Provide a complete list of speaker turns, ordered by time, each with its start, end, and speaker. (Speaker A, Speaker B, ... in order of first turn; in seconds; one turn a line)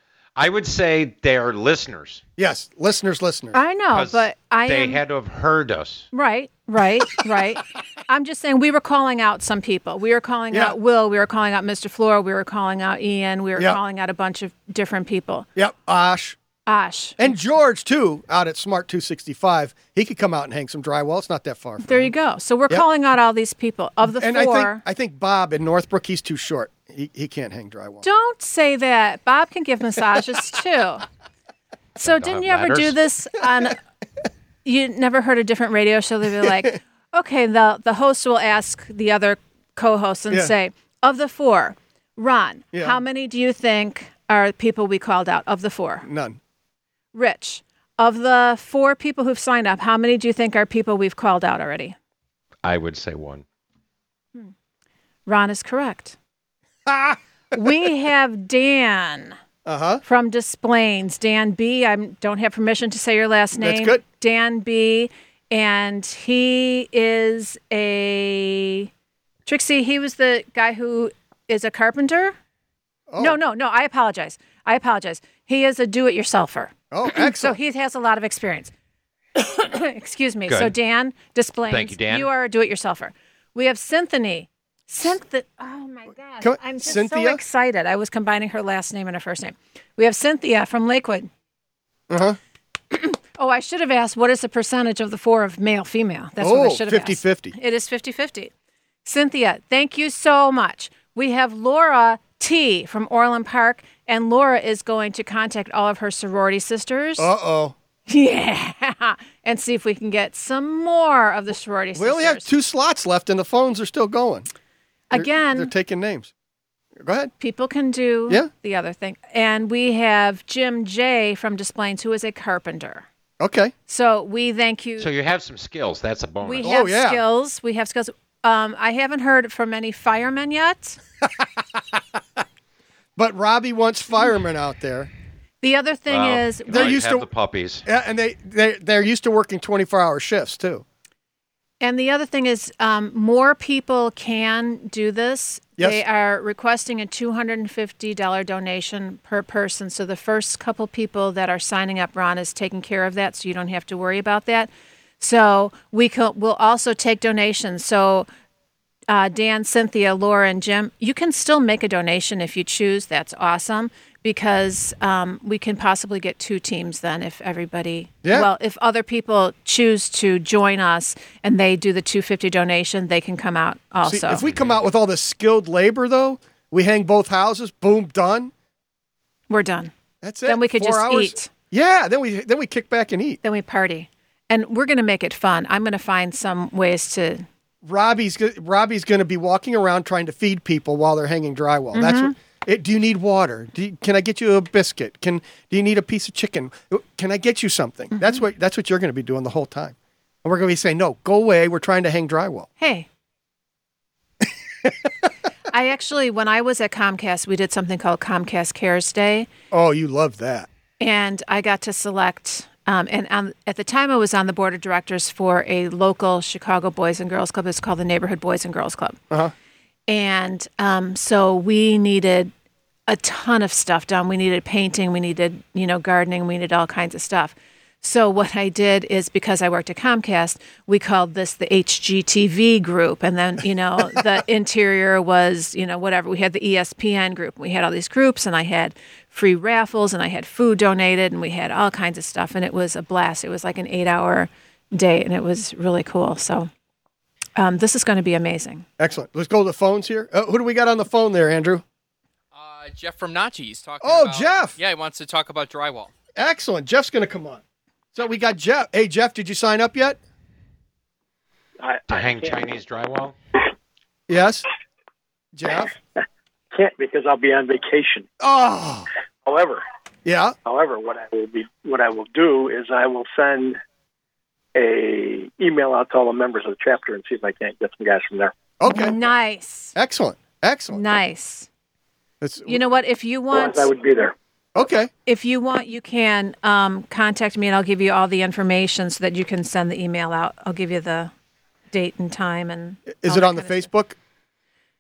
Speaker A: 0.4-2.2
Speaker B: 2.4-3.6
Speaker C: 3.5-5.0
Speaker A: 3.9-6.1
Speaker C: 6.1-15.5
Speaker B: 15.6-16.4
Speaker C: 16.7-17.3
Speaker B: 17.2-22.1
Speaker C: 21.8-24.8
Speaker B: 24.0-28.0
Speaker C: 28.0-31.1
Speaker C: 32.0-33.8
Speaker A: 32.0-33.0
Speaker C: 34.6-46.1
Speaker B: 42.7-43.0
Speaker B: 46.0-46.4
Speaker C: 47.1-52.0
Speaker A: 52.6-53.5
Speaker C: 55.3-56.2
Speaker B: 56.9-57.6
Speaker C: 57.5-59.4
Speaker B: 59.6-60.0
Speaker C: 60.0-68.9
Speaker B: 63.6-64.0
Speaker C: 69.5-72.4
Speaker B: 73.1-73.4
Speaker C: 73.2-78.7
Speaker B: 76.9-77.6
Speaker C: 79.4-91.3
Speaker A: 80.5-80.7
Speaker A: 81.7-82.3
Speaker B: 86.4-87.4
Speaker B: 92.1-92.4
Speaker C: 92.9-98.5
Speaker B: 96.4-97.5
Speaker C: 99.0-107.3
Speaker B: 107.2-107.8
Speaker C: 108.1-112.5
Speaker B: 112.0-114.5
Speaker C: 115.1-115.7
Speaker B: 115.1-116.3
Speaker B: 117.0-117.3
Speaker C: 117.4-123.1
Speaker B: 123.4-123.7
Speaker C: 123.9-125.1
Speaker A: 125.0-126.7
Speaker C: 126.4-131.0
Speaker B: 126.6-127.2
Speaker B: 131.2-132.2
Speaker B: 133.2-135.1
Speaker C: 135.6-137.0
Speaker A: 136.1-137.9
Speaker B: 136.7-137.3
Speaker B: 137.9-140.8
Speaker C: 141.8-158.3
Speaker C: 159.1-174.4
Speaker B: 168.2-168.5
Speaker B: 174.0-178.5
Speaker A: 174.4-174.7
Speaker C: 179.5-179.9
Speaker B: 180.2-183.4
Speaker C: 180.4-181.5
Speaker C: 183.4-187.5
Speaker B: 187.8-202.7
Speaker C: 191.9-192.3
Speaker C: 198.2-198.4
Speaker C: 202.8-203.1
Speaker B: 204.8-205.1
Speaker C: 205.7-209.5
Speaker B: 209.7-210.7
Speaker C: 211.0-219.2
Speaker C: 220.1-222.5
Speaker C: 223.1-246.7
Speaker C: 247.6-248.9
Speaker B: 249.0-251.8
Speaker D: 252.5-256.1
Speaker B: 254.0-254.8
Speaker B: 256.4-257.6
Speaker B: 258.1-260.2
Speaker E: 261.8-262.7
Speaker A: 262.1-263.4
Speaker B: 264.3-264.7
Speaker B: 265.5-265.9
Speaker E: 266.7-268.3
Speaker B: 268.4-269.1
Speaker E: 269.4-269.8
Speaker B: 270.2-270.6
Speaker E: 270.6-273.8
Speaker E: 274.8-278.5
Speaker B: 278.8-279.2
Speaker C: 278.9-279.9
Speaker B: 280.0-281.1
Speaker C: 280.9-281.7
Speaker B: 282.4-282.8
Speaker C: 282.7-283.9
Speaker E: 283.5-284.4
Speaker B: 284.8-285.1
Speaker C: 285.3-291.3
Speaker C: 291.9-293.9
Speaker B: 293.1-294.2